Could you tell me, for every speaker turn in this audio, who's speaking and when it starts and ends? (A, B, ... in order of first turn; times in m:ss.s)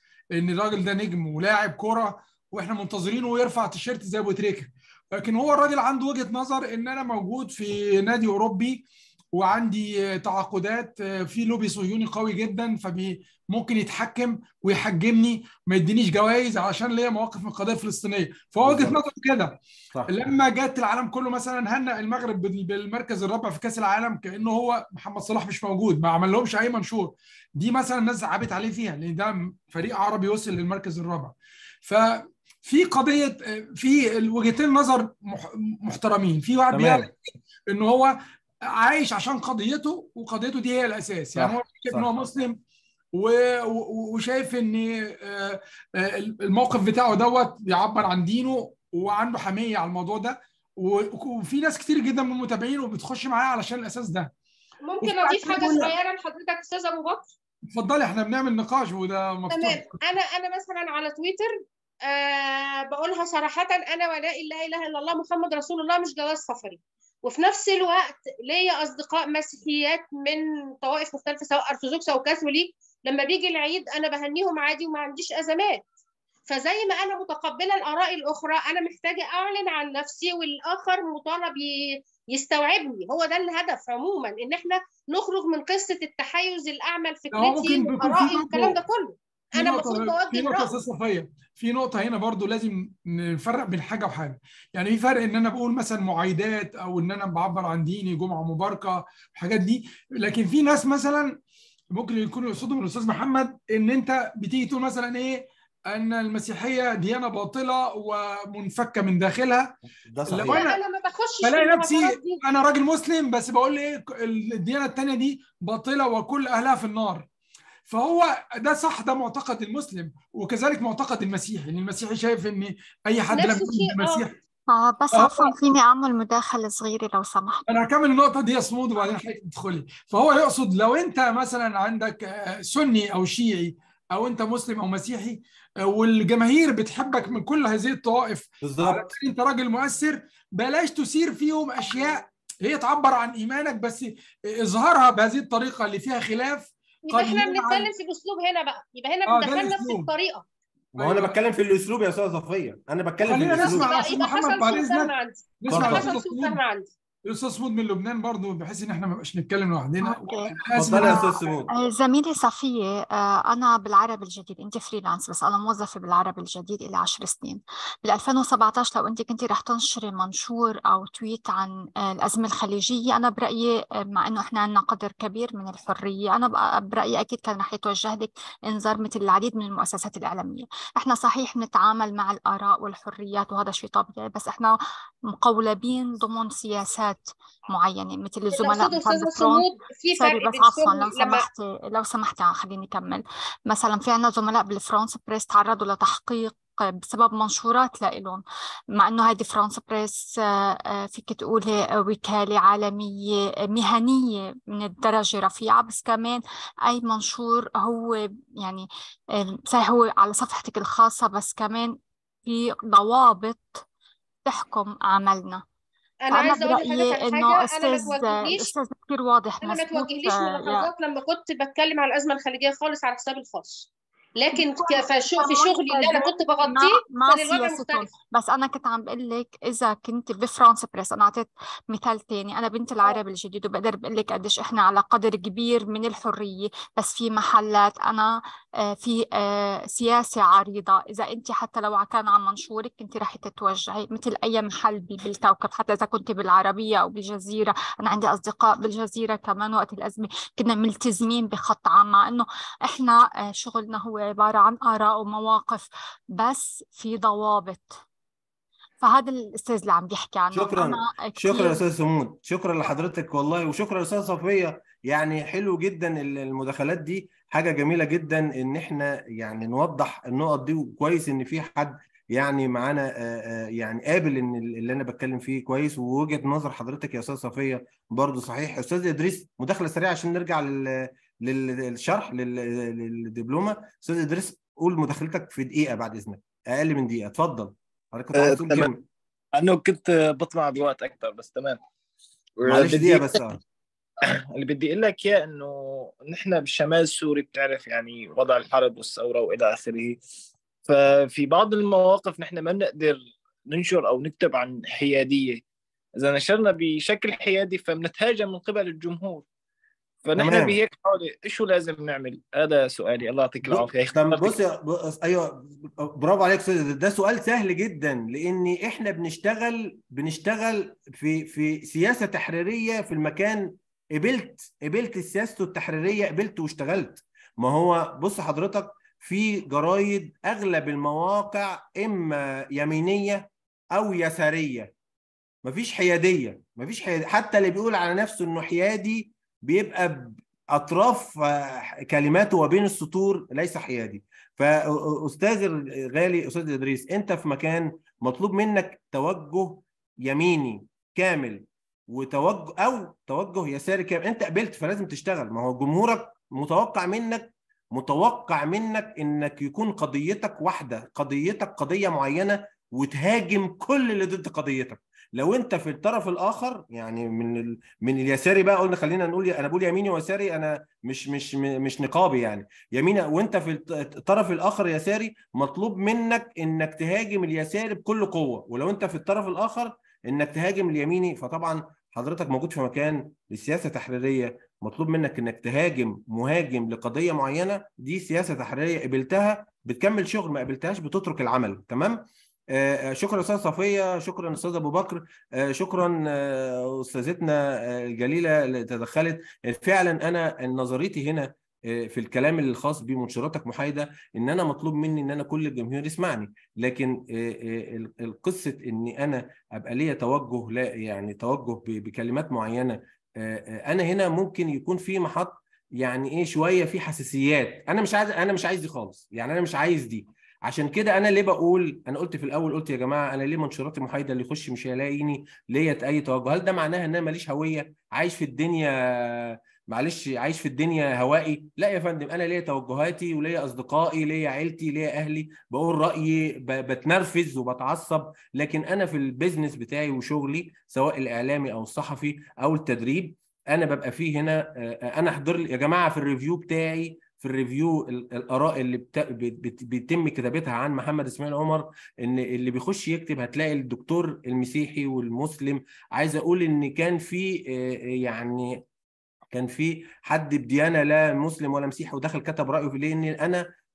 0:00.3-0:37.2 A
0:18.6-0:19.0 B
0:36.7-0:37.1 B
0:37.7-0:38.2 A
0:38.7-0:42.6 A
0:41.4-0:42.1 B
0:43.1-0:54.3 A
0:54.8-0:57.3 C
0:55.0-0:56.0 A
0:57.7-1:00.0 A
0:59.5-1:15.9 C
1:16.5-1:30.7 C
1:27.3-1:28.8 A
1:29.5-1:41.4 A
1:41.9-1:49.8 A
1:50.1-1:50.6 B
1:50.3-1:50.8 A
1:50.5-1:52.4 C
1:51.4-1:57.3 A
1:57.9-2:04.3 A
2:03.3-2:04.3 C
2:04.7-2:07.6 D
2:05.1-2:05.5 A
2:07.7-2:27.9 A
2:18.6-2:19.2 B
2:27.1-2:30.5 C
2:29.3-2:30.1 A
2:31.0-2:33.9 B
2:31.0-2:31.3 A
2:33.2-2:36.6 A
2:33.5-2:36.9 C
2:35.7-2:36.1 B
2:37.3-2:41.3 A
2:40.0-3:18.4 D
2:40.7-2:41.7 B
3:08.5-3:11.5 C
3:19.0-3:33.8 D
3:34.4-3:35.6 D
3:36.2-3:38.7 C
3:36.3-3:40.9 D
3:39.6-3:48.1 C
3:44.5-4:18.0 D
4:19.0-4:21.8 D
4:20.5-4:49.1 B
4:48.4-4:48.9 E
4:49.6-4:51.8 E
4:52.6-4:53.4 E
4:52.7-4:53.6 B
4:54.2-5:00.2 E
5:00.9-5:05.6 E
5:06.2-5:09.4 E
5:10.2-5:14.5 E
5:10.4-5:10.8 B
5:13.6-5:34.9 B
5:35.6-7:38.8 B
7:39.5-7:43.6 B